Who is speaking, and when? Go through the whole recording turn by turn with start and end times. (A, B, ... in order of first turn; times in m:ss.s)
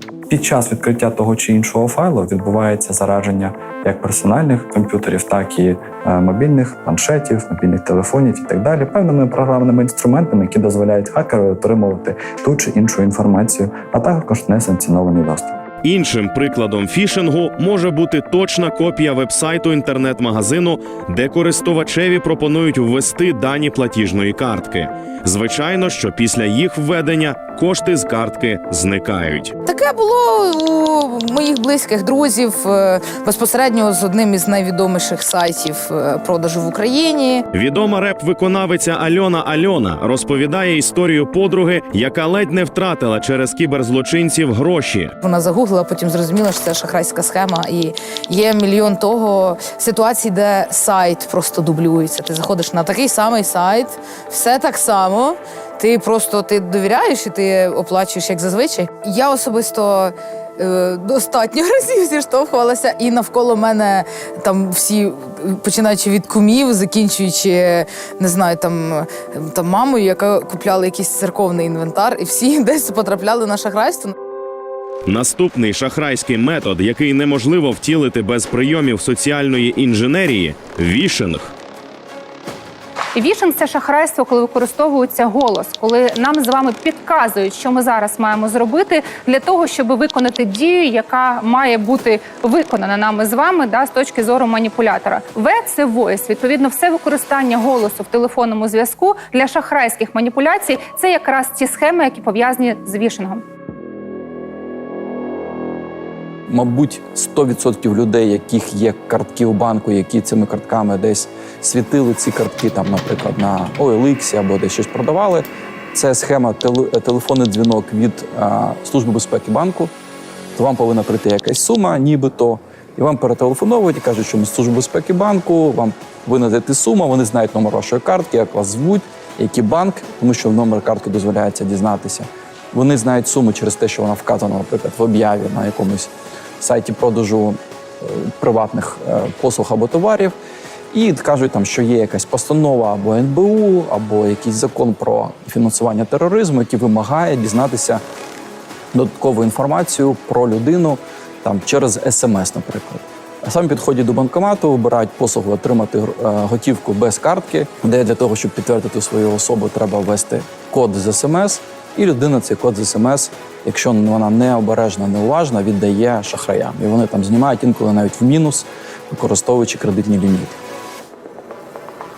0:00.3-0:15.6 A
0:15.8-0:29.5 B
0:29.6-0:37.4 C
0:37.5-0:45.1 B
0:45.2-1:14.1 C
1:15.0-1:21.5 B
1:23.1-1:43.4 D
1:46.5-1:59.9 E
2:00.6-2:20.3 E
2:20.9-2:28.0 E
2:28.9-2:50.6 E